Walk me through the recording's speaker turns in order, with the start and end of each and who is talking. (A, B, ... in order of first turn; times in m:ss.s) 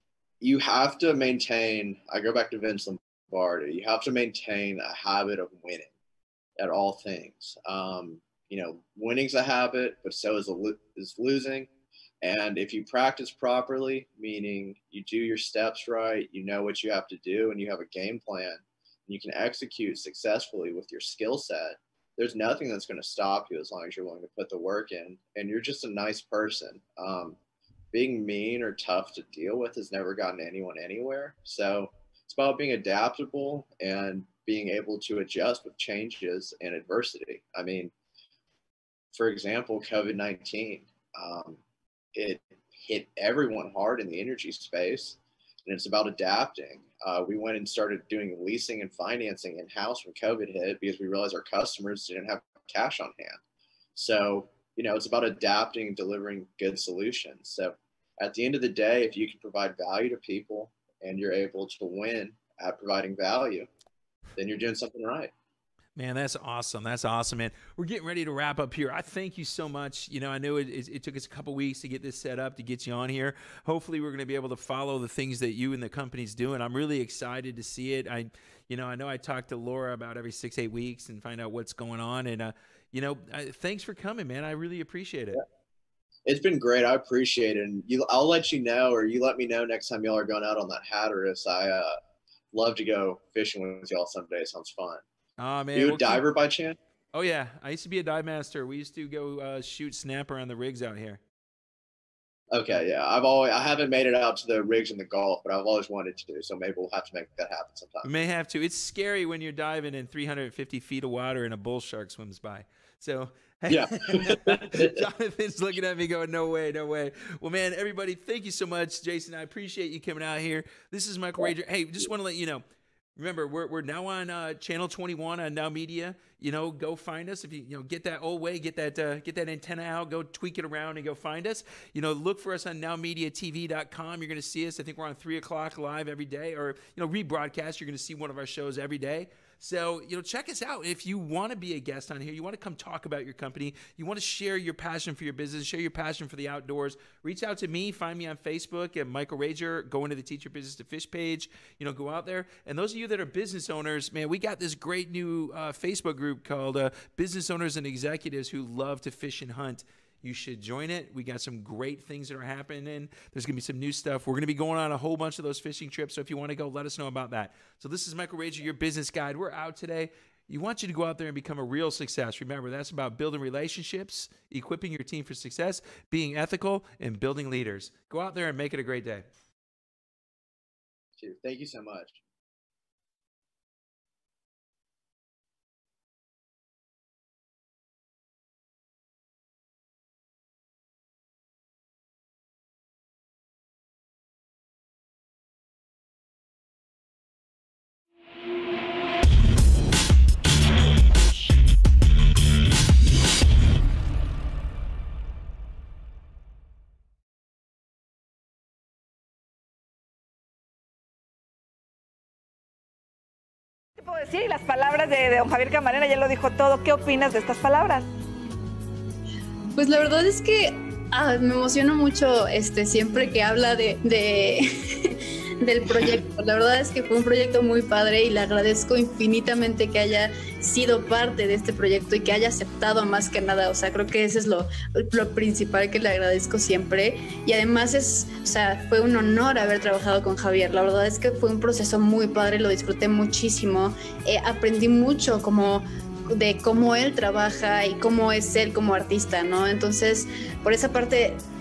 0:00.4-0:05.9 A
0:06.6-0:11.7 A
0:12.2-0:27.4 A
0:27.9-0:37.9 A
0:39.1-0:41.6 A
0:42.1-0:53.4 A
0:54.0-1:03.7 A
1:04.4-1:05.3 A
1:06.0-1:25.4 B
1:26.2-1:32.0 A
1:32.5-1:35.0 A
1:35.4-1:36.2 B
1:35.7-1:36.8 A
1:37.1-1:41.2 B
1:42.5-1:48.1 A
1:48.0-2:02.6 B
1:53.7-1:54.9 A
2:03.2-2:59.2 B
3:01.2-3:02.2 A
3:34.0-3:38.1 C
3:39.7-4:11.4 D